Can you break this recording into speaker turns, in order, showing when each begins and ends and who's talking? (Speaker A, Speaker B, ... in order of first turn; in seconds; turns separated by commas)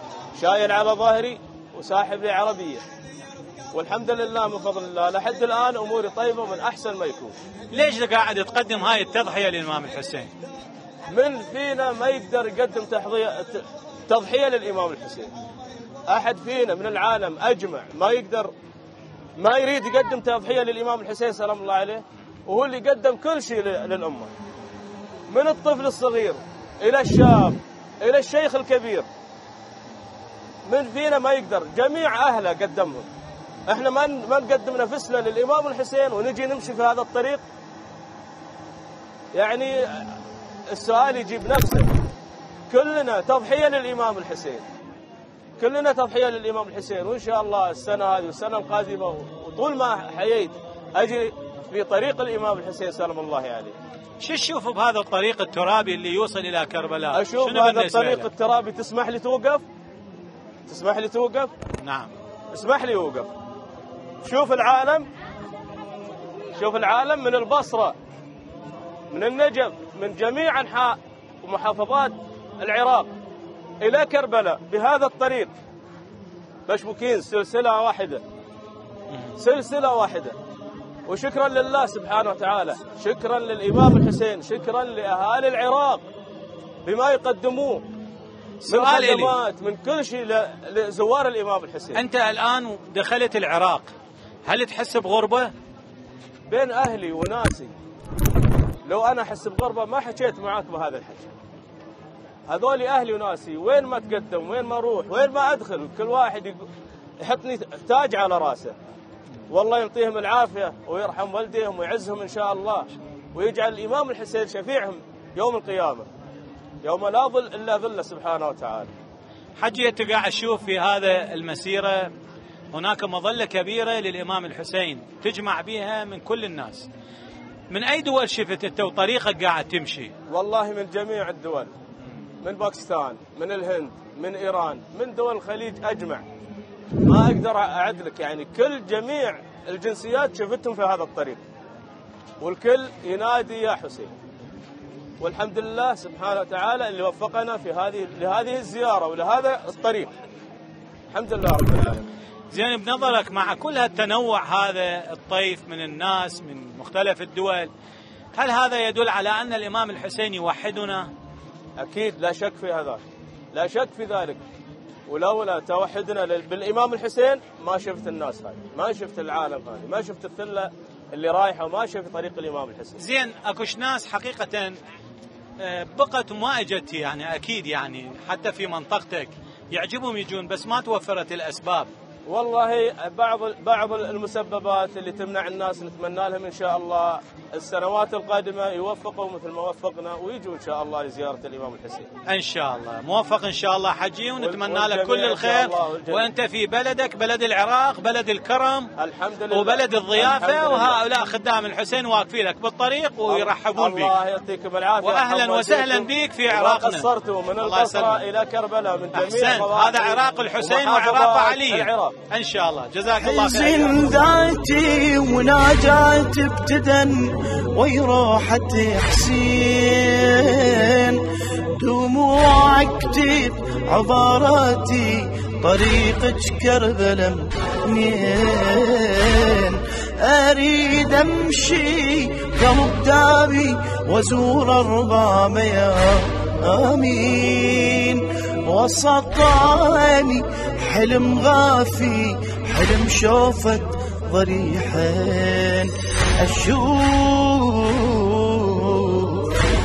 Speaker A: 0.4-2.8, Speaker A: 3.7-7.3, Speaker B: 7.7-10.3, Speaker A: 11.1-15.3, Speaker A: 16.1-18.5, Speaker A: 19.4-24.3, Speaker A: 25.3-29.1, Speaker A: 30.7-33.1, Speaker A: 33.7-37.4, Speaker A: 39.3-40.2, Speaker A: 40.7-41.9, Speaker A: 42.7-44.6, Speaker A: 45.6-53.8, Speaker B: 54.2-58.3, Speaker A: 57.1-59.6, Speaker A: 60.6-61.5, Speaker B: 61.8-62.1, Speaker A: 62.5-63.3, Speaker A: 64.2-65.1, Speaker A: 66.5-68.0, Speaker A: 69.1-73.1, Speaker A: 73.8-75.5, Speaker A: 76.7-78.2, Speaker A: 79.4-80.3, Speaker A: 81.1-86.0, Speaker A: 86.8-87.8, Speaker B: 88.6-89.3, Speaker A: 88.7-92.0, Speaker B: 91.9-93.9, Speaker B: 94.5-95.5, Speaker A: 96.5-97.7, Speaker A: 98.8-101.3, Speaker A: 102.5-106.7, Speaker A: 107.2-108.8, Speaker A: 109.5-116.1, Speaker A: 116.8-118.9, Speaker B: 119.6-122.1, Speaker B: 122.7-126.9, Speaker B: 127.7-130.1, Speaker A: 130.3-131.7, Speaker A: 132.4-136.2, Speaker A: 137.0-141.4, Speaker A: 142.4-144.1, Speaker A: 145.2-150.1, Speaker A: 151.1-152.1, Speaker B: 152.5-157.7, Speaker B: 158.3-161.1, Speaker A: 161.8-163.0, Speaker A: 163.5-164.4, Speaker A: 165.1-173.0, Speaker B: 173.0-174.7, Speaker B: 175.6-181.9, Speaker A: 182.3-192.1, Speaker B: 192.2-198.9, Speaker A: 194.4-196.3, Speaker A: 199.0-201.3, Speaker B: 199.5-204.1, Speaker A: 203.3-212.1, Speaker B: 205.0-207.1, Speaker B: 207.6-208.2, Speaker B: 209.1-214.2, Speaker C: 213.2-221.2, Speaker C: 221.8-249.5